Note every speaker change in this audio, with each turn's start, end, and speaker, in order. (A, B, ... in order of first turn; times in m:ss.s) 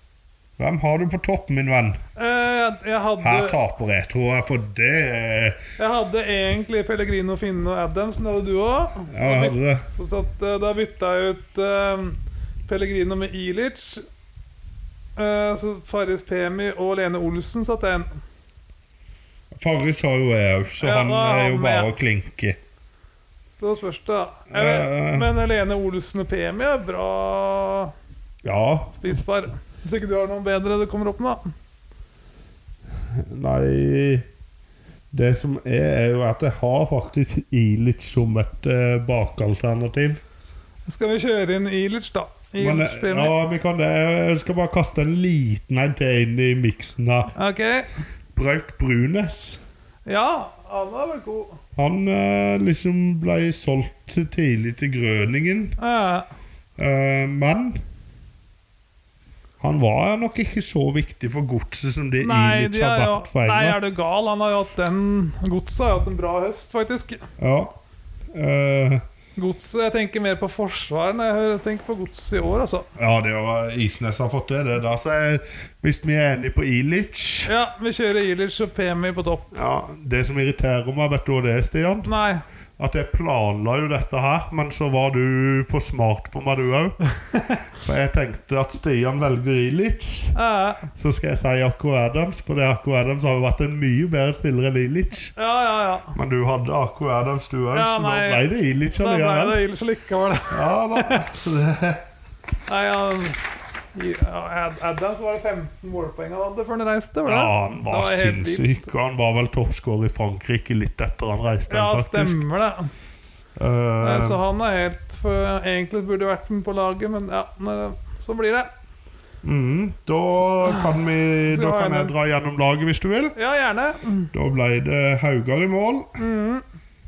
0:00.6-0:02.0 A
0:02.2-0:03.6 B
0:03.2-0:05.6 A
0:05.8-0:14.0 B
0:09.1-0:09.9 A
0:15.2-0:18.1 B
0:19.5-0:22.6 A
0:20.8-0:21.9 B
0:23.6-0:27.9 B
0:24.5-0:25.3 A
0:28.4-0:29.2 A
0:29.0-0:31.4 B
0:33.2-0:34.3 A
0:35.1-0:40.2 A
0:40.9-0:43.3 B
0:42.6-0:47.3 A
0:47.4-0:47.9 B
0:48.4-0:49.6 A
0:50.1-0:51.6 B
0:51.8-0:55.8 A
0:55.8-0:56.3 B
0:56.8-0:57.8 A
0:59.6-1:03.8 A
1:02.2-1:07.2 B
1:07.4-1:07.8 A
1:08.3-1:09.0 A
1:09.4-1:12.9 B
1:13.0-1:17.5 A
1:17.5-1:19.5 B
1:19.5-1:22.1 A
1:22.0-1:22.4 B
1:22.8-1:27.0 A
1:27.8-1:30.4 A
1:30.4-1:30.9 B
1:30.9-1:35.4 A
1:35.4-1:36.1 B
1:36.1-1:39.6 A
1:37.7-1:41.2 B
1:40.5-1:42.0 A
1:42.7-1:48.8 B
1:47.3-1:52.4 A
1:51.7-1:52.9 B
1:53.6-1:54.4 A
1:54.0-1:58.7 B
1:59.4-2:03.4 A
2:00.6-2:00.9 B
2:01.5-2:02.1 B
2:03.4-2:04.3 B
2:04.3-2:06.1 A
2:06.2-2:06.6 B